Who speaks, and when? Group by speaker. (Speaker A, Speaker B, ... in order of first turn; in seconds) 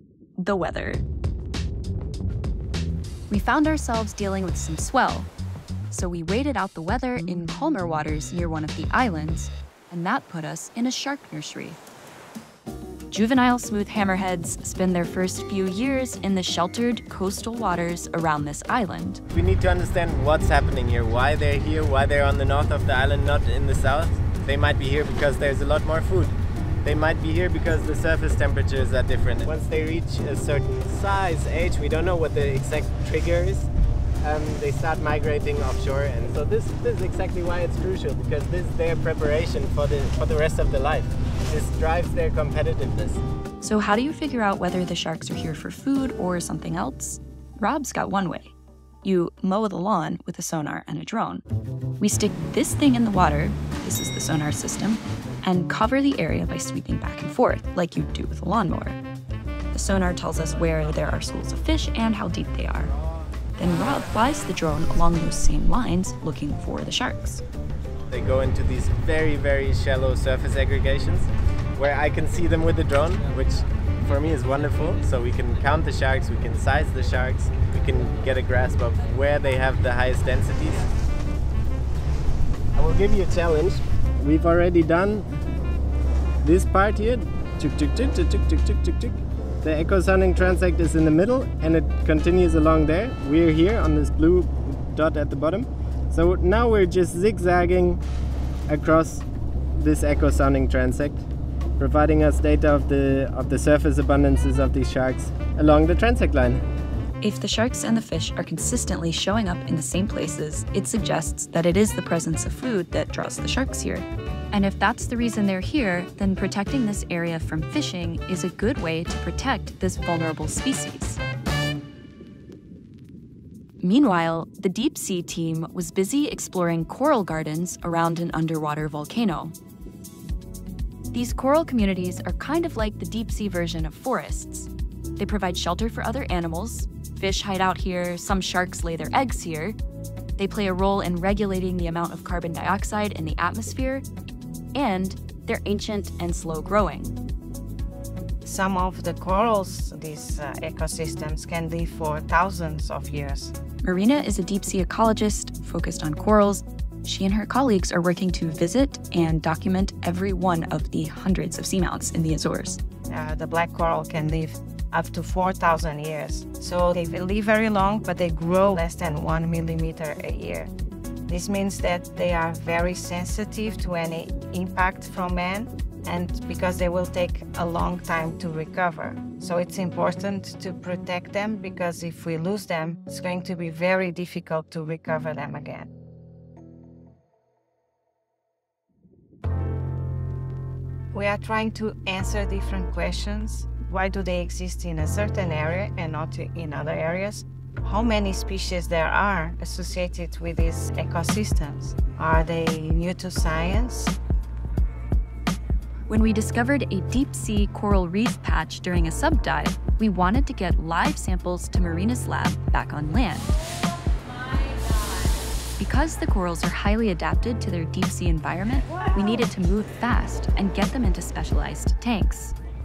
Speaker A: 0.4-1.0, 3.3-5.3, 5.9-11.8, 13.1-19.2, 43.6-51.4, 52.0-59.0, 59.7-62.9, 63.6-67.4, 107.2-121.2, 123.8-129.6, 131.1-139.8, 140.4-144.1, 144.7-147.2, 153.8-162.8, 206.1-213.5, 215.8-222.6
Speaker B: 19.3-33.7, 34.2-43.2, 68.1-80.9, 82.8-85.2, 86.4-98.0, 98.7-99.2, 99.8-101.2, 101.8-106.6
Speaker C: 148.4-153.6, 163.1-170.7, 171.3-185.9, 191.1-204.1